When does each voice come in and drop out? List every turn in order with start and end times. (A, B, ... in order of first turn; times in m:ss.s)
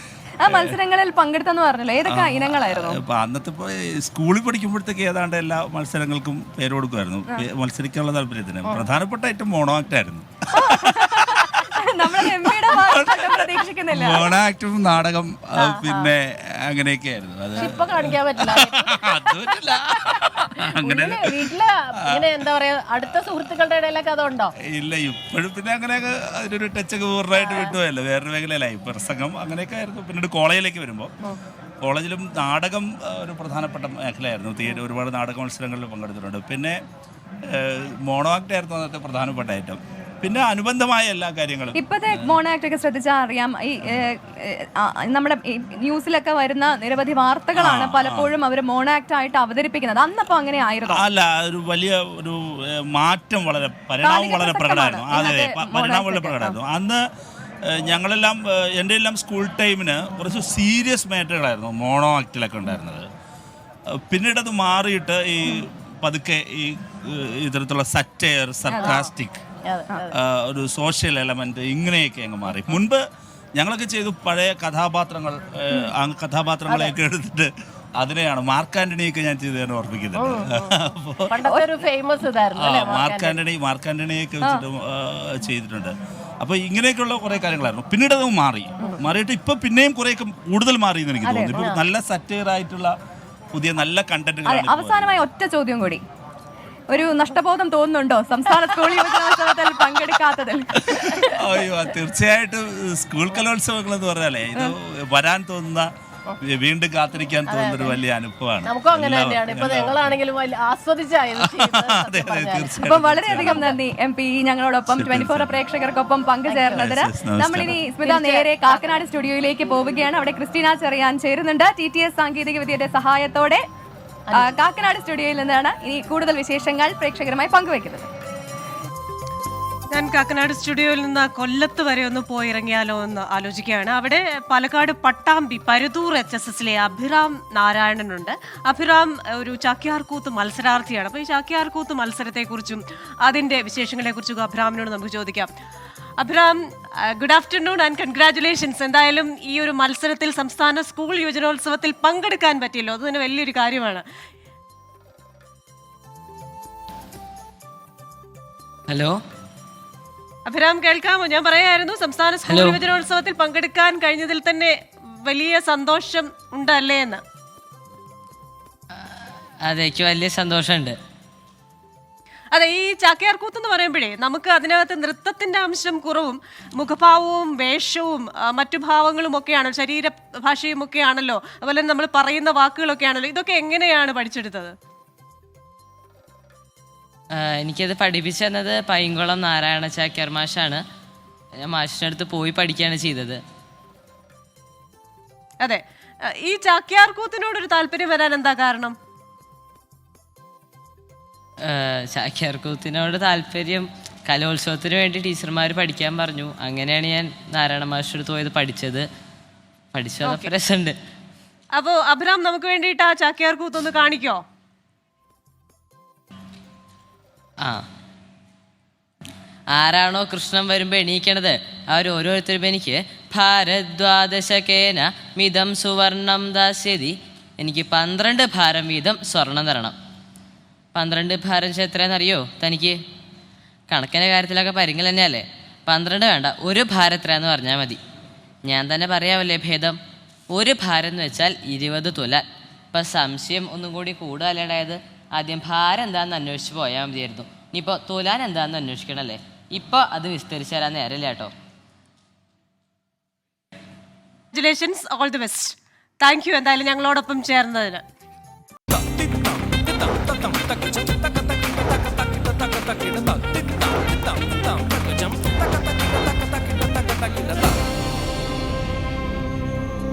0:00.4-0:03.0 A
0:00.5-0:00.7 B
0:02.1-0:21.5 B
0:10.5-0:14.3 A
0:15.6-0:16.1 C
0:17.6-0:18.9 C
0:20.8-0:24.5 C
0:24.7-0:31.1 B
0:27.4-0:27.7 C
0:31.8-0:36.8 B
0:37.5-0:42.2 B
0:41.8-0:51.0 A
0:47.6-0:48.3 B
0:50.9-0:57.0 B
0:54.0-0:56.6 A
0:57.7-1:03.1 B
1:04.1-1:09.4 B
1:08.8-1:09.1 C
1:09.6-1:10.1 C
1:10.2-1:13.0 B
1:13.6-1:21.3 B
1:20.2-1:20.7 C
1:21.3-1:23.4 C
1:22.6-1:32.9 B
1:31.2-1:31.7 A
1:33.6-1:35.1 B
1:34.4-1:36.0 A
1:36.9-1:41.3 A
1:40.9-1:45.9 B
1:46.5-1:50.2 B
1:47.5-1:48.0 C
1:48.6-1:52.8 C
1:51.4-1:53.6 B
1:52.8-2:03.6 A
1:53.3-1:53.8 C
1:54.9-1:55.6 B
1:56.5-1:56.8 C
1:56.8-1:57.8 B
1:58.0-1:58.8 C
2:04.3-2:04.5 C
2:04.4-2:08.1 A
2:09.9-2:25.5 D
2:26.2-2:34.0 D
2:38.9-2:39.2 E
2:40.5-2:47.2 D
2:42.5-2:42.8 E
2:49.6-2:51.0 E
2:52.5-3:04.7 D
3:07.3-3:10.8 E
3:11.6-3:13.4 E
3:15.6-3:19.0 D
3:21.6-3:29.1 E
3:30.0-3:31.0 E
3:30.2-3:30.5 D
3:31.8-3:34.4 D
3:39.7-3:50.0 E
3:51.0-3:53.0 E
3:53.9-3:58.0 E
3:58.7-4:00.0 E
4:00.5-4:11.5 E
4:14.5-4:18.0 D
4:18.9-4:27.8 F